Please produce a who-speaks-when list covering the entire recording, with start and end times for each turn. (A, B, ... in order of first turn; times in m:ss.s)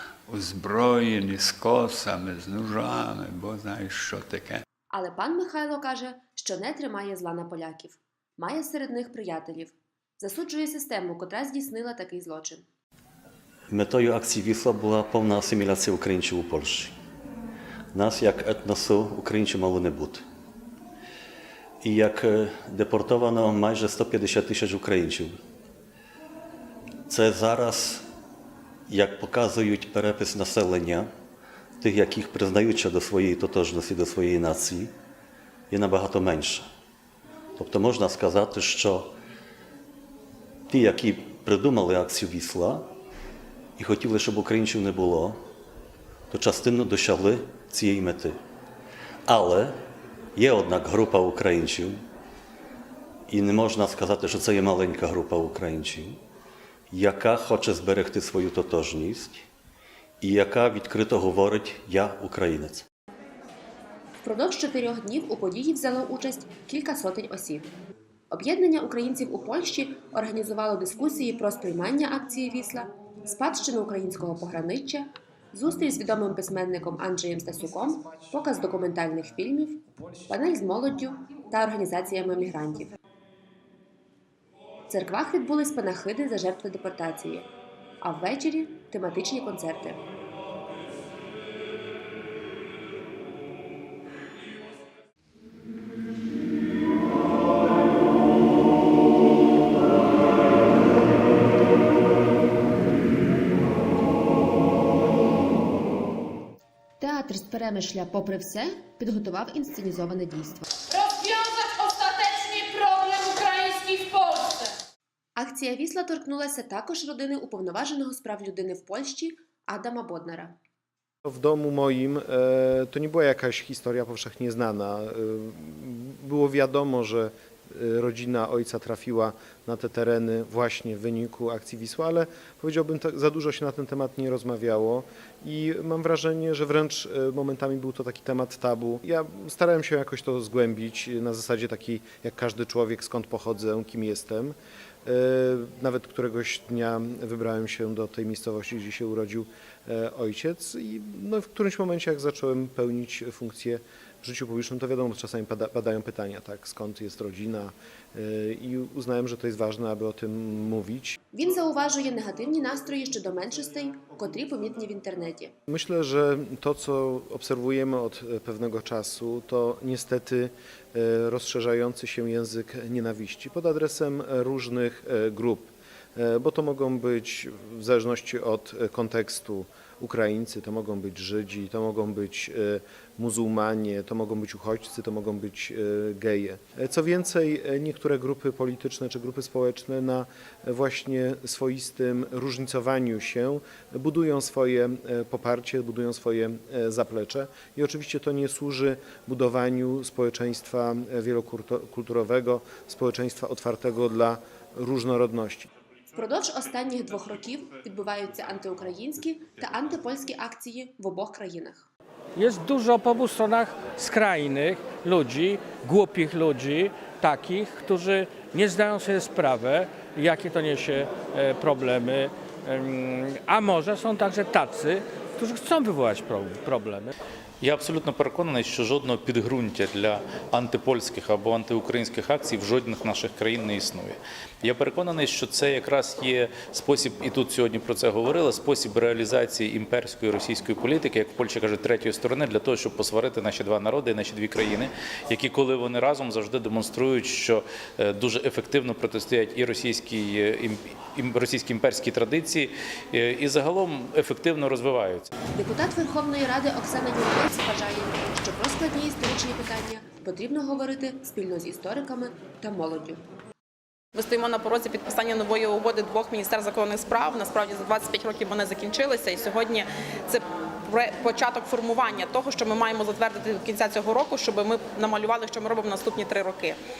0:00.3-0:04.6 A
0:04.9-0:12.6 B
0:13.7-0:17.0 C
0:17.9-0:20.2 C
0:21.8-0:25.4 C
0:27.1-0:28.0 C
0:28.9-0:31.1 C
0:31.8-0:34.9 C
0:35.7-0:36.7 C
0:37.6-0:39.1 C
0:40.7-0:42.9 C
0:43.8-0:45.4 C
0:46.3-0:48.4 C
0:49.3-0:49.8 C
0:50.3-0:52.0 C
0:53.3-0:56.2 C
0:56.9-0:59.5 C
1:00.2-1:02.8 C
1:04.2-1:07.7 B
1:08.3-1:23.0 B
1:24.9-1:27.5 B
1:28.0-1:30.0 B
1:47.0-1:50.7 B
1:55.4-2:00.5 B
2:01.2-2:41.2 D
2:41.3-2:45.5 B
2:45.7-3:25.7 D
3:26.1-3:31.9 B
3:32.4-3:47.1 E
3:47.6-4:15.3 F
4:15.5-4:23.2 B
4:24.1-4:36.8 G